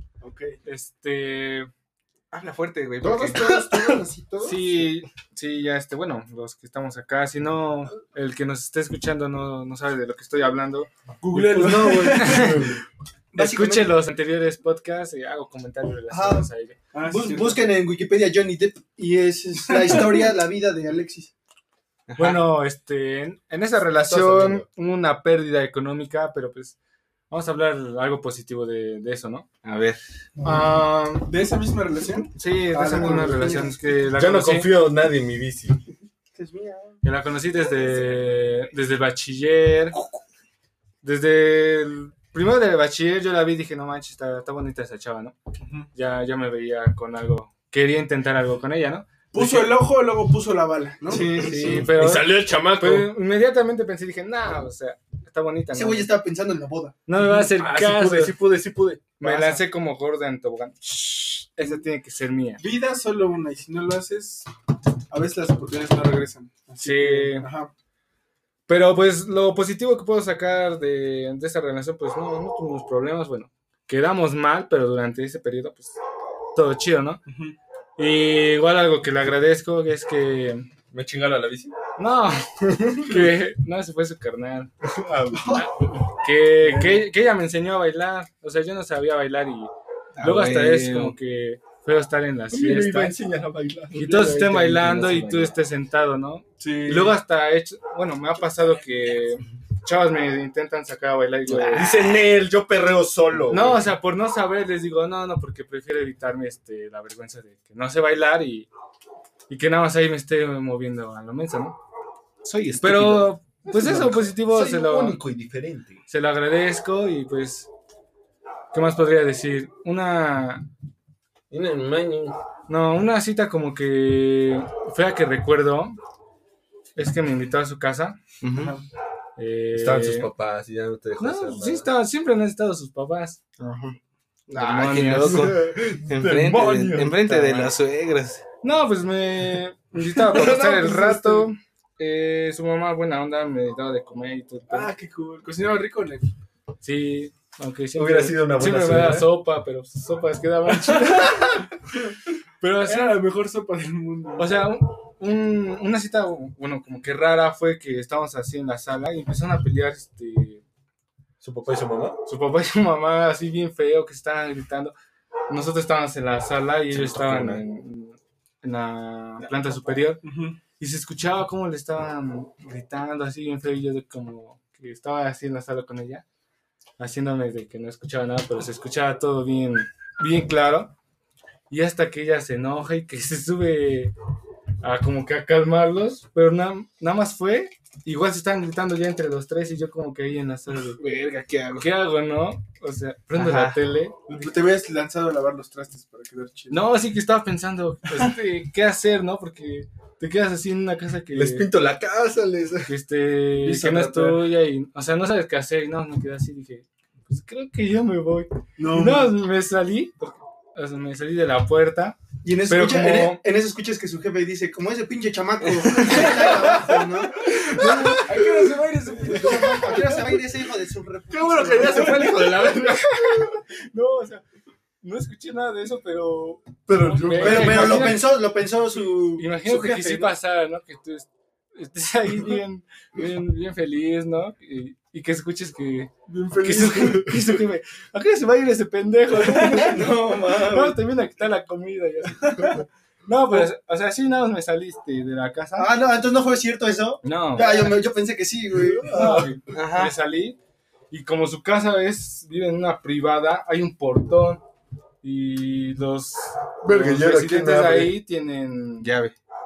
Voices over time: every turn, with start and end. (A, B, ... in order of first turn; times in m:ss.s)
0:00.2-0:00.6 A
0:00.6-0:01.7 B
0:02.3-0:03.5 C
0:03.0-0:04.8 D
0:04.4-0:10.9 B
0:11.2-0:12.6 A
0:11.4-0:12.5 D
0:11.9-0:12.6 B
0:12.3-0:12.8 E
0:13.3-0:13.9 D
0:13.4-0:16.8 B
0:16.1-0:16.5 D
0:16.9-0:17.7 A
0:17.0-0:21.3 D
0:22.1-0:22.4 C
0:22.2-0:26.8 B
0:24.0-0:24.7 E
0:27.3-0:29.5 B
0:29.6-0:30.0 C
0:30.4-0:31.2 D
0:30.5-0:33.6 A
0:32.4-0:34.8 B
0:32.8-0:33.8 D
0:34.1-0:35.8 E
0:36.4-0:37.0 D
0:37.0-0:40.0 B
0:41.0-0:45.4 B
0:45.6-0:45.9 A
0:45.9-0:49.8 B
0:49.3-0:51.5 A
0:51.1-0:51.9 D
0:51.1-0:56.1 B
0:51.5-0:53.1 E
0:55.7-0:57.0 D
0:57.1-0:58.4 B
0:57.2-0:59.6 E
0:59.2-1:02.6 B
1:02.6-1:04.5 A
1:05.1-1:07.7 A
1:06.8-1:07.5 B
1:08.7-1:16.0 B
1:16.6-1:17.2 B
1:17.3-1:17.6 A
1:18.0-1:20.7 B
1:20.9-1:21.8 E
1:22.0-1:24.7 B
1:24.8-1:25.7 E
1:25.4-1:33.2 B
1:30.2-1:31.2 C
1:32.5-1:35.6 E
1:33.9-1:41.9 B
1:36.6-1:37.2 A
1:41.5-1:42.0 C
1:41.7-1:43.9 E
1:43.5-1:48.7 B
1:49.5-1:51.8 B
1:52.4-1:53.3 C
1:52.8-1:55.2 B
1:52.9-1:56.0 E
1:56.1-1:57.7 B
1:58.7-2:00.7 B
2:01.5-2:02.4 E
2:02.7-2:06.0 B
2:07.0-2:08.2 B
2:08.4-2:08.8 C
2:08.6-2:08.8 A
2:09.4-2:10.3 B
2:09.7-2:11.9 E
2:11.2-2:13.4 B
2:13.6-2:14.0 C
2:14.5-2:18.4 C
2:14.5-2:15.5 B
2:15.2-2:17.7 E
2:18.6-2:24.9 B
2:20.0-2:21.5 E
2:24.7-2:26.3 A
2:26.8-2:31.6 B
2:27.9-2:29.3 E
2:32.6-2:33.2 B
2:32.8-2:34.6 A
2:34.4-2:40.6 B
2:41.4-2:42.2 E
2:42.2-2:44.9 B
2:45.5-2:50.2 B
2:47.0-2:47.5 C
2:50.2-2:50.6 A
2:50.8-2:56.2 B
2:57.0-3:01.0 B
3:01.7-3:04.1 B
3:04.8-3:11.0 B
3:11.0-3:11.9 C
3:11.8-3:14.4 B
3:13.3-3:13.8 C
3:14.3-3:16.8 A
3:16.7-3:21.7 B
3:21.3-3:22.9 E
3:22.9-3:33.4 B
3:23.6-3:24.4 E
3:28.8-3:29.2 A
3:32.4-3:38.1 D
3:35.8-3:36.3 C
3:37.7-3:40.1 A
3:37.7-3:38.4 E
3:39.3-3:42.4 D
3:39.3-3:40.0 E
3:41.3-3:43.6 E
3:41.8-3:44.4 B
3:45.0-3:48.3 B
3:46.9-3:48.2 E
3:47.4-3:50.3 D
3:49.4-4:05.9 B
3:56.3-3:57.3 A
3:59.5-4:01.0 D
4:02.4-4:02.8 A
4:05.8-4:09.4 D
4:07.2-4:08.0 B
4:08.8-4:09.6 E
4:09.1-4:10.6 B
4:09.7-4:10.1 C
4:11.1-4:14.6 B
4:15.2-4:19.1 B
4:16.8-4:18.2 E
4:19.0-4:19.4 C